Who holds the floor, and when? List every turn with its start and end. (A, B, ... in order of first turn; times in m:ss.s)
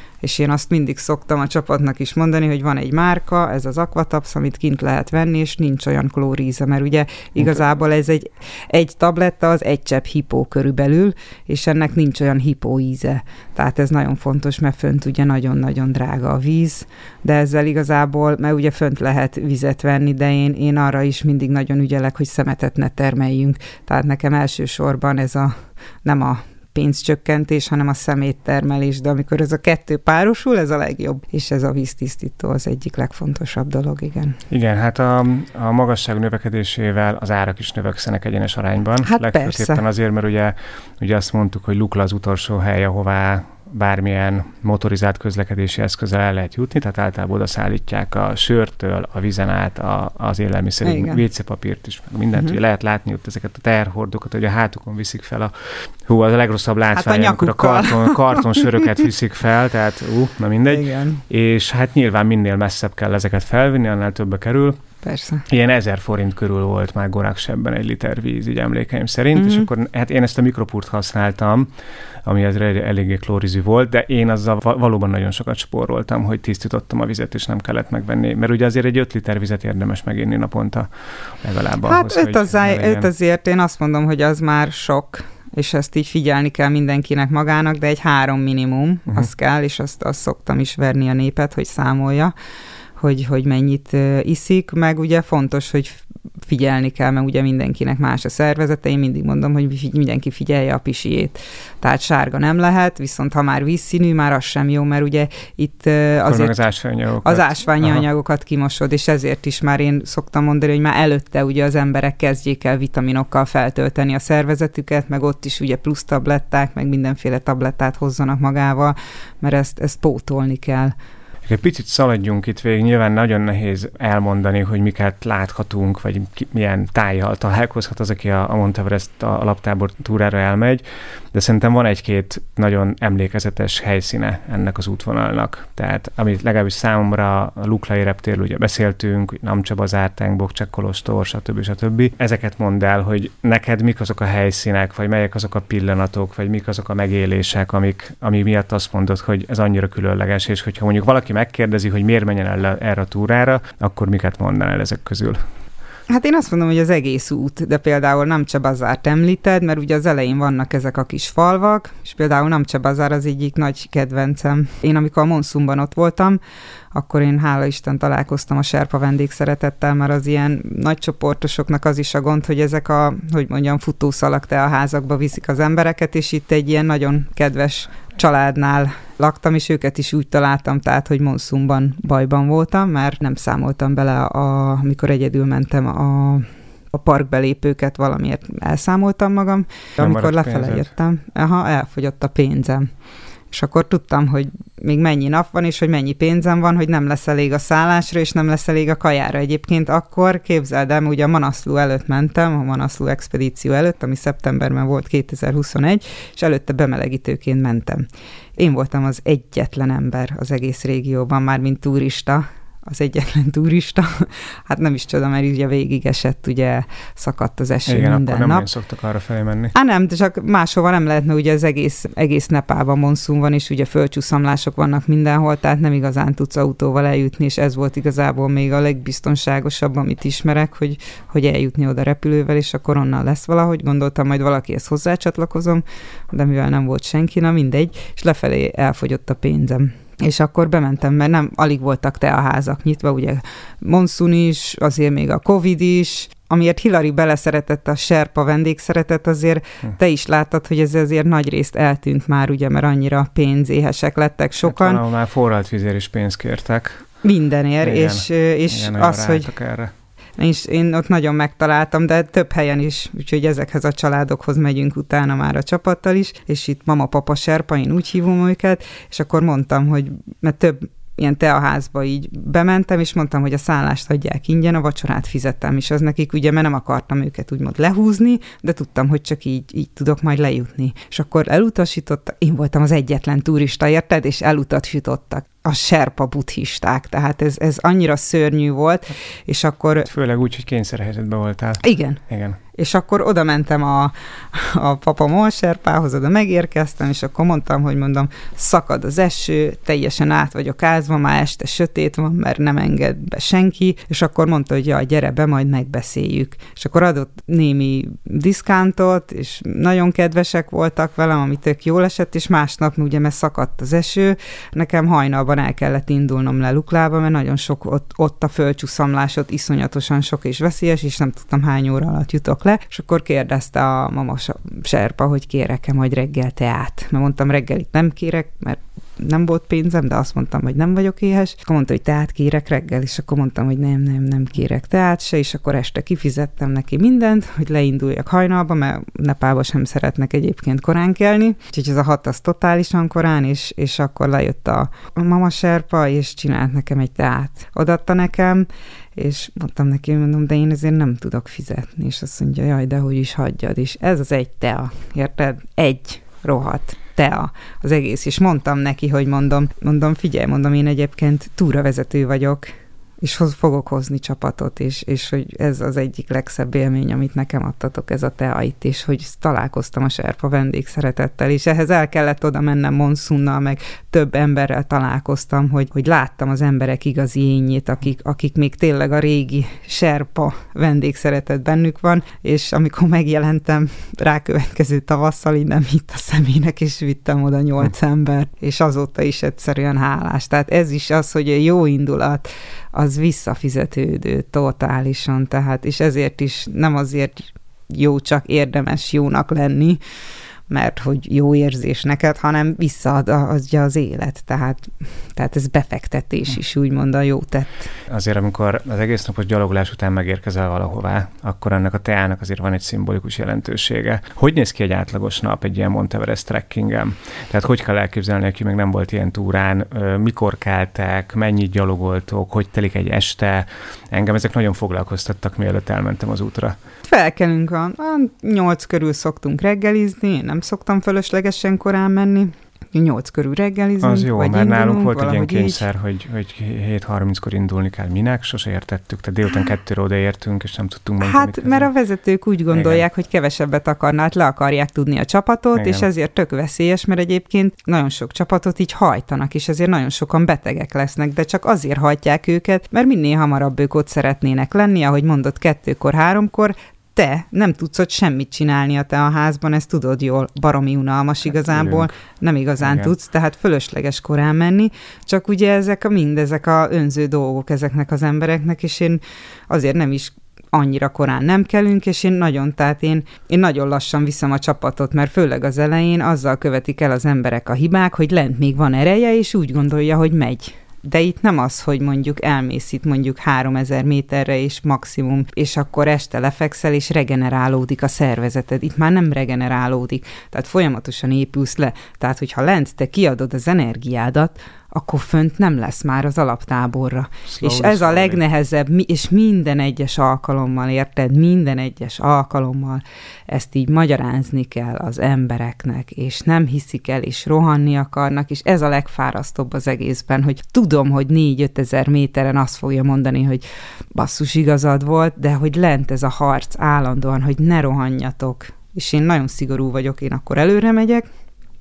0:00.2-0:34.4 A
0:34.5-1:04.8 B
0:39.0-0:39.8 A
0:50.8-0:51.2 A
0:56.9-0:58.9 A
1:00.7-1:01.2 A
1:05.0-1:05.4 A
1:05.5-1:11.7 B
1:09.3-1:09.7 A
1:12.2-1:20.9 B
1:21.4-1:23.1 B
1:21.8-1:32.3 A
1:33.0-1:46.6 A
1:46.2-1:48.0 B
1:47.2-2:00.9 A
2:01.4-2:35.4 B
2:36.1-2:46.4 A
2:46.9-3:12.9 A
3:10.0-3:10.9 B
3:13.5-3:28.0 A
3:28.6-3:38.7 A
3:37.9-3:39.7 B
3:39.7-4:15.0 A
4:14.6-4:17.0 B
4:17.2-4:19.5 A
4:17.8-4:19.9 B
4:20.4-4:50.1 A
4:50.0-4:52.6 B
4:51.8-4:52.2 A
4:52.7-6:02.7 A
6:03.2-6:40.0 A
6:40.7-6:47.9 A
6:48.1-7:06.8 B
7:07.0-7:15.8 A
7:14.0-7:21.9 B
7:21.2-8:41.3 A
7:22.7-7:23.0 B
7:25.8-7:26.1 B
7:41.5-7:42.1 B
7:42.8-7:43.1 B
8:17.4-8:18.4 B